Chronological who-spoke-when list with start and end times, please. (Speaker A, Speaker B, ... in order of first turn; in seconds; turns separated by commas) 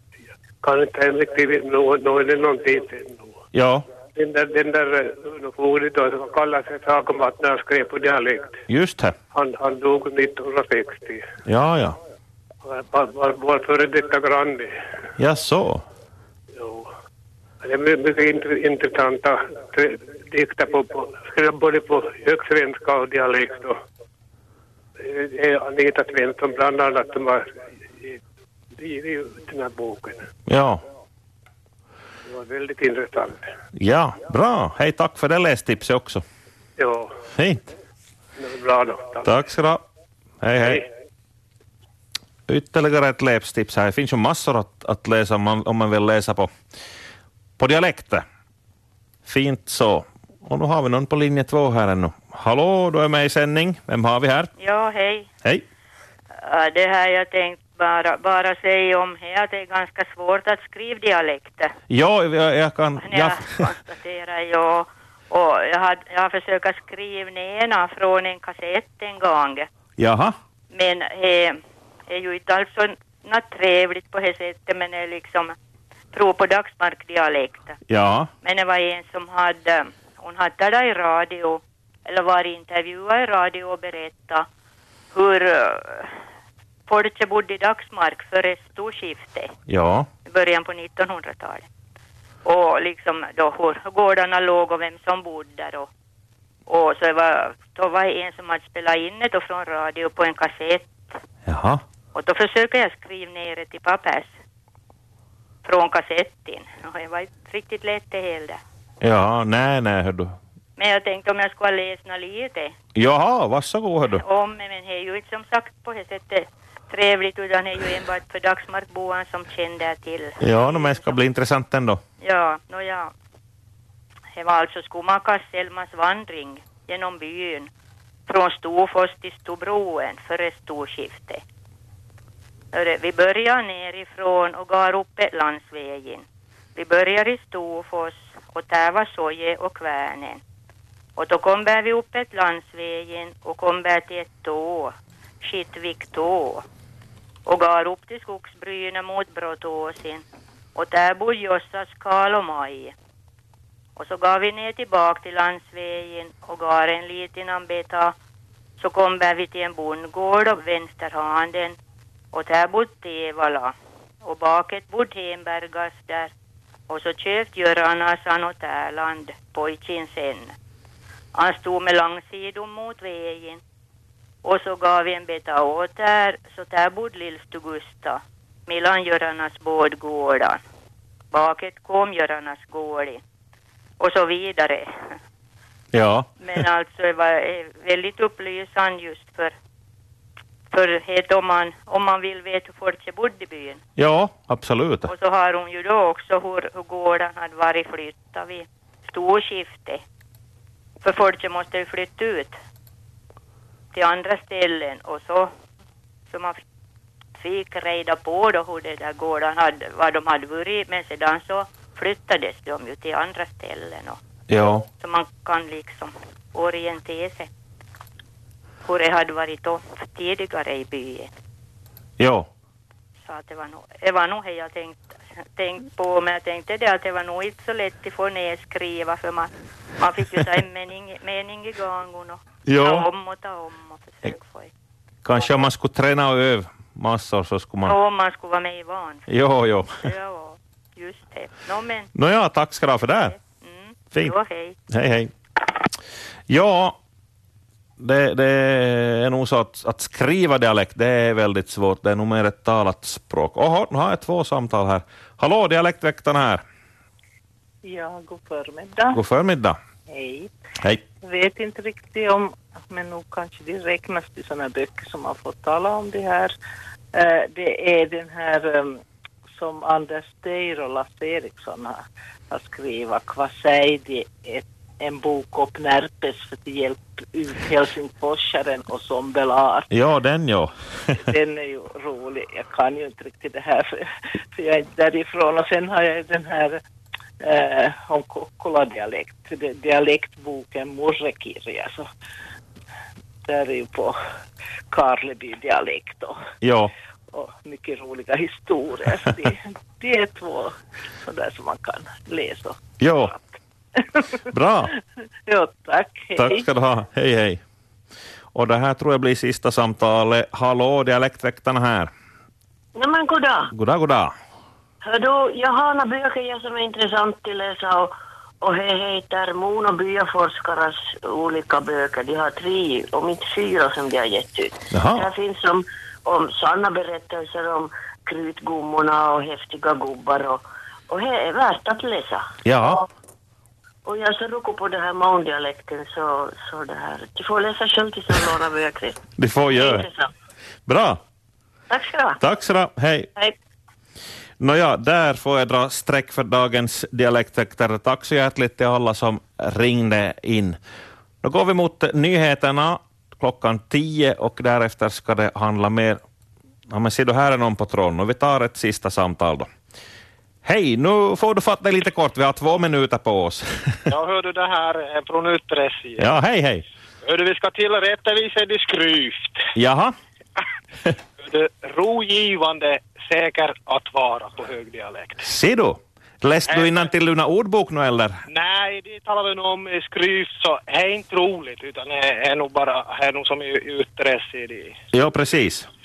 Speaker A: 0.6-3.4, Speaker B: 3.5-3.9, Speaker A: 4.2-8.6, Speaker B: 8.7-9.2, Speaker A: 9.3-11.2, Speaker B: 11.4-12.0, Speaker A: 12.7-14.7, Speaker B: 15.2-15.8, Speaker A: 16.6-16.9, Speaker A: 17.6-23.8, Speaker A: 25.0-28.2, Speaker A: 28.8-30.3, Speaker B: 30.5-30.8, Speaker A: 32.3-33.5, Speaker B: 33.8-36.2, Speaker A: 36.8-37.1, Speaker B: 37.3-37.6, Speaker A: 38.4-39.3, Speaker B: 39.2-39.8, Speaker B: 40.4-40.9, Speaker B: 42.5-46.5, Speaker B: 47.6-48.2, Speaker B: 49.2-54.5, Speaker C: 54.6-55.3, Speaker C: 56.4-61.7, Speaker B: 61.9-63.6, Speaker C: 63.0-69.7, Speaker B: 70.0-70.4, Speaker C: 70.7-75.5, Speaker C: 76.1-77.8, Speaker B: 77.9-78.3, Speaker C: 78.4-84.5, Speaker C: 85.1-86.1, Speaker C: 86.9-89.5, Speaker B: 89.7-90.1, Speaker C: 90.3-91.7, Speaker C: 92.5-95.9, Speaker C: 96.7-100.9, Speaker B: 101.5-101.8, Speaker C: 102.1-104.3, Speaker C: 105.6-108.6, Speaker B: 109.0-110.3, Speaker C: 110.8-112.8, Speaker B: 113.0-114.2, Speaker C: 114.2-121.2, Speaker B: 120.4-122.0, Speaker C: 122.2-123.1, Speaker C: 124.3-127.7, Speaker C: 128.3-131.4, Speaker C: 132.7-136.2, Speaker C: 136.8-140.4, Speaker C: 141.2-146.7, Speaker C: 147.5-150.2, Speaker C: 150.8-152.9, Speaker C: 154.0-158.2, Speaker C: 158.8-161.8, Speaker C: 162.3-166.3, Speaker C: 166.9-170.6, Speaker C: 171.3-173.6, Speaker C: 174.4-180.6, Speaker C: 181.3-183.2, Speaker C: 184.0-185.1, Speaker B: 185.9-186.6, Speaker C: 186.4-189.5, Speaker C: 190.7-193.8, Speaker B: 194.0-195.1, Speaker C: 195.1-200.0, Speaker C: 201.0-202.6, Speaker C: 203.9-205.5, Speaker C: 206.3-206.6, Speaker C: 207.4-214.2, Speaker B: 214.5-214.9, Speaker C: 215.0-217.5, Speaker C: 218.8-221.3, Speaker B: 222.2-222.5, Speaker C: 223.2-225.0, Speaker C: 225.6-234.7, Speaker B: 232.7-233.1, Speaker B: 235.2-237.9, Speaker C: 237.8-239.2, Speaker B: 239.3-240.0, Speaker C: 240.0-242.1, Speaker B: 242.2-243.4, Speaker C: 243.3-244.8, Speaker B: 244.9-245.8, Speaker B: 246.5-247.0, Speaker B: 248.0-256.6, Speaker D: 257.8-259.2, Speaker B: 259.1-259.8, Speaker D: 260.1-260.5, Speaker D: 261.2-266.6, Speaker D: 267.1-269.0, Speaker D: 269.5-279.9, Speaker B: 279.9-281.3, Speaker D: 281.2-284.0, Speaker D: 284.6-286.8, Speaker D: 287.4-292.1, Speaker D: 293.5-294.2, Speaker D: 294.9-296.4, Speaker B: 296.6-296.9, Speaker D: 297.3-304.3, Speaker B: 303.0-303.3, Speaker B: 304.5-304.9, Speaker D: 305.5-306.7, Speaker B: 306.4-307.6, Speaker B: 308.5-312.1, Speaker E: 312.9-313.7, Speaker B: 313.7-314.4, Speaker E: 315.0-333.1, Speaker B: 324.9-325.3, Speaker B: 332.6-333.0, Speaker E: 334.1-340.3, Speaker B: 339.4-340.1, Speaker B: 340.9-341.2, Speaker E: 341.9-342.4, Speaker B: 342.4-343.3, Speaker B: 344.6-350.8, Speaker B: 351.4-356.2, Speaker B: 356.9-359.7, Speaker B: 360.6-364.1, Speaker F: 364.1-366.2, Speaker B: 366.2-366.9, Speaker F: 367.3-369.4, Speaker B: 369.8-370.1, Speaker F: 371.5-375.4, Speaker B: 375.4-378.4, Speaker F: 378.5-384.9, Speaker B: 385.1-385.9